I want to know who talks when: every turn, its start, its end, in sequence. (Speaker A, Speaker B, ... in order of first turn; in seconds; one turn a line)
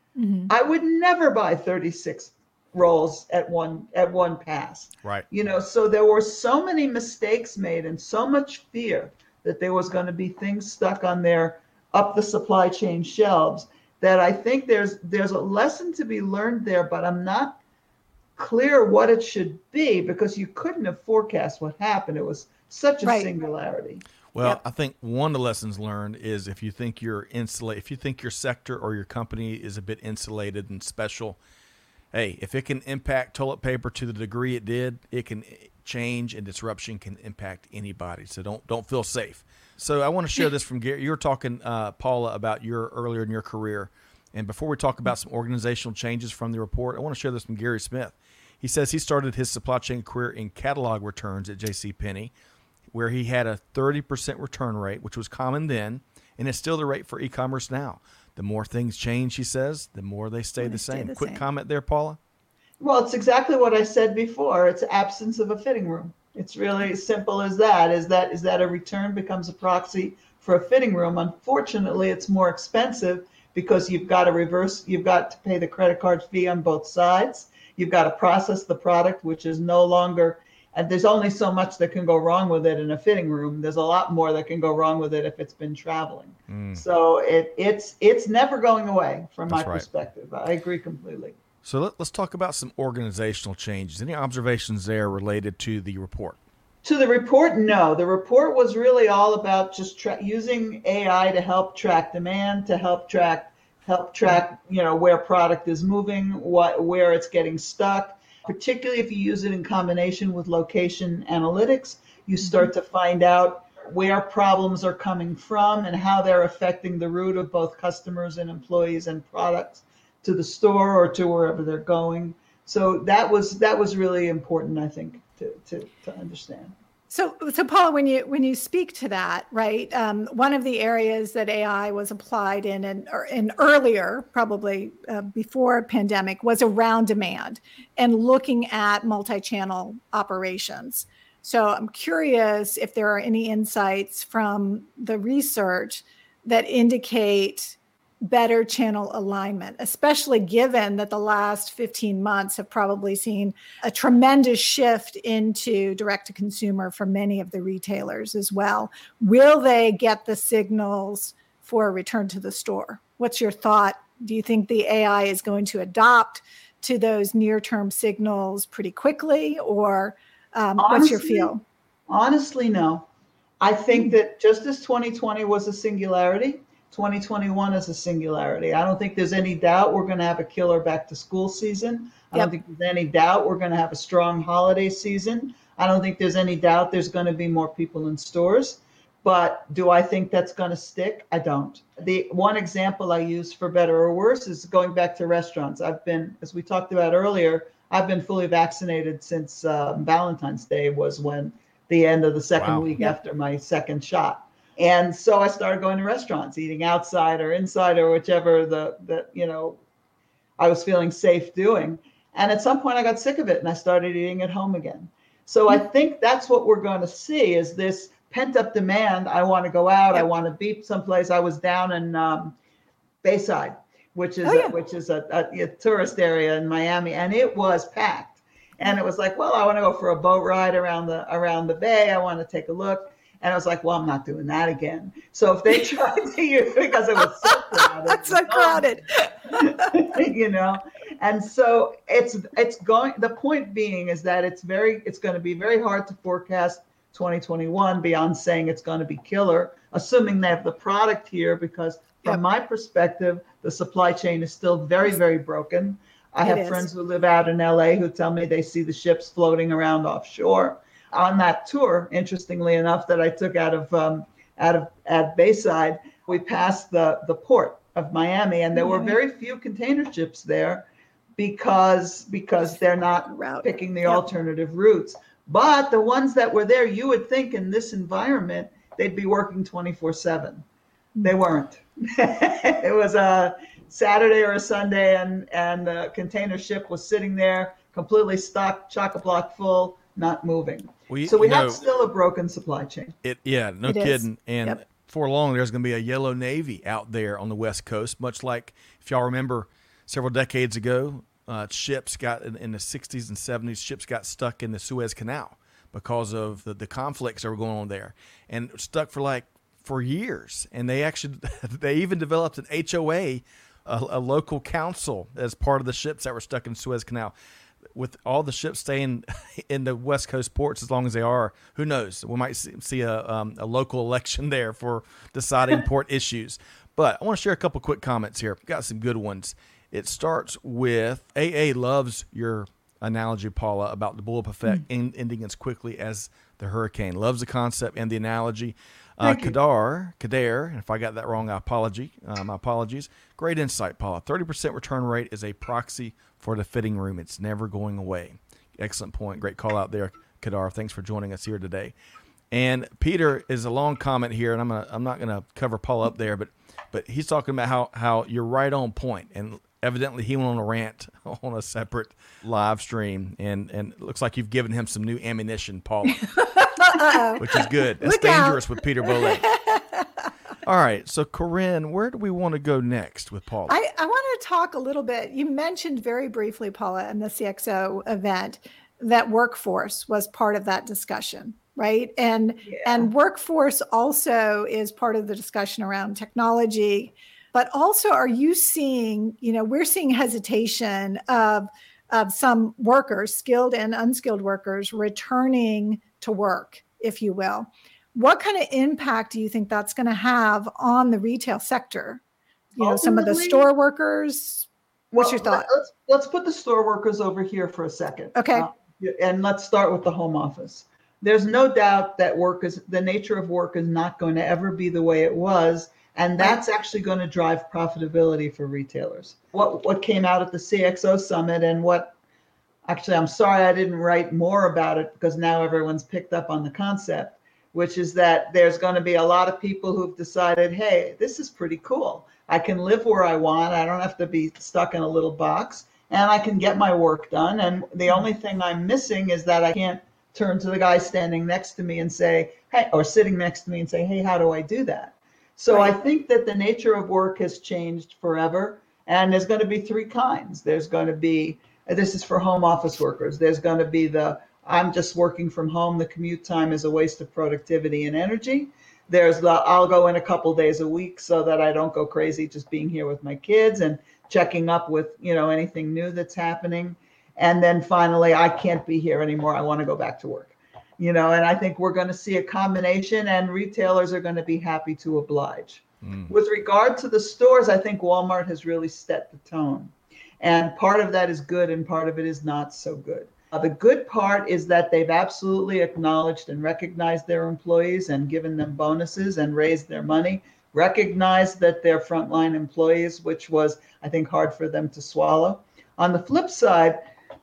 Speaker A: 0.2-0.5
Speaker B: 0.5-17.6
Speaker B: 18.4-24.0
Speaker A: 23.0-23.3
Speaker C: 24.3-31.4
Speaker C: 32.1-52.3
Speaker C: 52.9-62.2
Speaker A: 60.6-61.4
Speaker B: 62.8-91.4
Speaker C: 86.5-86.8
Speaker C: 89.5-89.9
Speaker C: 91.6-96.4
Speaker B: 96.8-126.8
Speaker A: 127.1-171.6
Speaker B: 170.8-171.5
Speaker B: 172.1-173.1
Speaker B: 173.6-209.8
Speaker C: 202.6-202.9
Speaker B: 210.6-222.6
Speaker B: 223.2-238.9
Speaker A: 224.4-224.7
Speaker A: 237.5-240.0
Speaker B: 239.5-280.6
Speaker A: 256.4-256.9
Speaker A: 268.8-269.2
Speaker A: 273.3-274.2
Speaker B: 281.2-293.2
Speaker C: 291.1-291.8
Speaker C: 293.2-317.3
Speaker A: 293.9-294.8
Speaker C: 317.9-351.9
Speaker B: 339.2-339.6
Speaker C: 352.5-366.5
Speaker A: 366.4-370.1
Speaker C: 367.4-369.5
Speaker C: 370.6-373.7
Speaker A: 373.7-402.2
Speaker B: 382.6-383.1
Speaker A: 402.8-405.7
Speaker B: 402.8-403.7
Speaker B: 405.1-422.1
Speaker A: 408.4-408.7
Speaker B: 422.9-497.1
Speaker A: 445.7-446.0
Speaker C: 476.0-476.3